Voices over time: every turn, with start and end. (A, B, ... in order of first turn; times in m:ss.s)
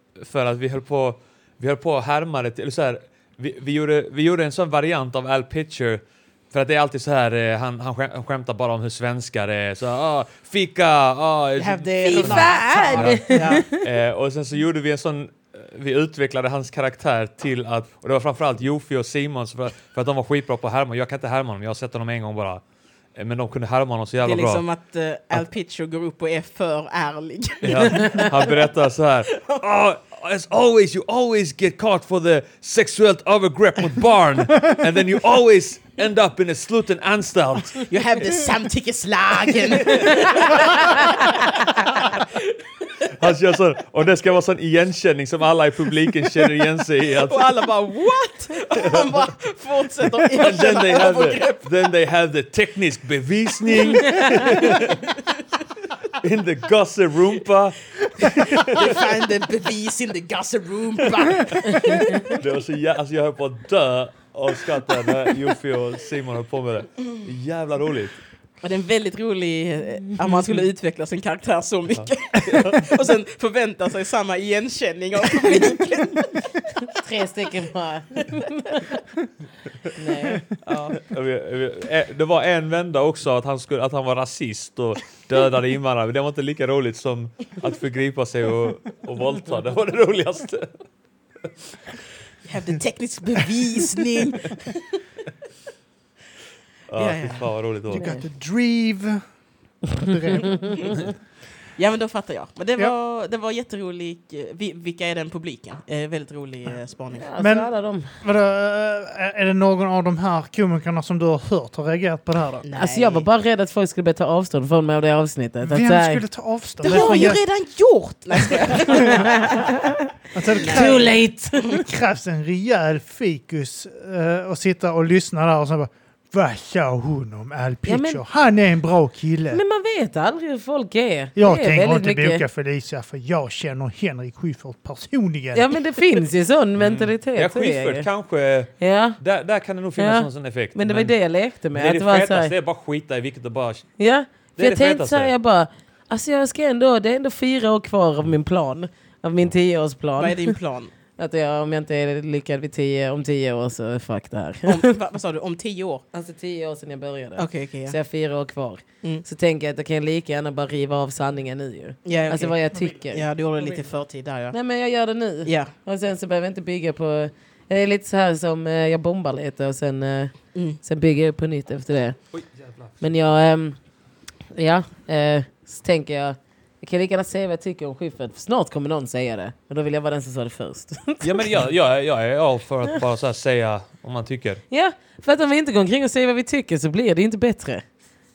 0:00.2-0:22.6 A
0:11.6-0:13.6 B
0:12.0-0:13.8 C
0:23.1-0:24.6 A
0:24.2-0:28.6 B
0:27.6-0:37.9 A
0:28.0-0:28.2 C
0:37.9-0:42.1 B
0:43.0-0:47.5 A
0:47.2-0:51.6 B
0:50.2-0:55.1 A
0:54.0-0:54.8 B
0:56.1-0:58.8 A
0:58.2-1:02.4 B
1:01.2-1:08.2 A
1:08.6-1:16.9 B
1:12.0-1:13.0 A
1:16.9-1:18.9 C
1:19.9-1:20.4 C
1:20.6-1:30.8 A
1:20.7-1:21.0 B
1:32.5-1:34.8 B
1:36.9-1:38.1 A
1:36.9-1:37.4 B
1:37.9-1:39.2 D
1:39.9-1:41.0 D
1:41.8-1:47.2 B
1:47.2-1:48.1 C
1:47.4-1:47.7 D
1:48.2-1:52.6 D
1:52.6-1:53.3 B
1:52.8-1:56.2 C
1:55.6-1:57.4 D
1:56.8-1:59.7 B
1:58.8-1:59.2 D
1:59.0-2:00.0 C
2:00.3-2:09.6 D
2:00.5-2:01.8 C
2:00.5-2:01.8 B
2:07.9-2:08.2 C
2:09.5-2:12.4 C
2:11.4-2:15.8 D
2:15.5-2:18.1 C
2:16.8-2:21.1 A
2:18.8-2:19.2 C
2:20.0-2:22.5 C
2:21.7-2:23.9 A
2:24.0-2:30.6 C
2:24.6-2:25.3 A
2:30.2-2:30.9 B
2:31.2-2:34.8 C
2:34.6-2:36.0 B
2:36.1-2:43.2 C
2:37.4-2:38.0 B
2:42.0-2:42.6 B
2:43.1-2:44.6 B
2:44.5-2:52.2 C
2:45.4-2:45.7 B
2:52.3-2:53.0 A
2:53.0-2:53.8 C
2:54.5-3:01.4 C
3:01.2-3:04.6 A
3:04.7-3:07.8 C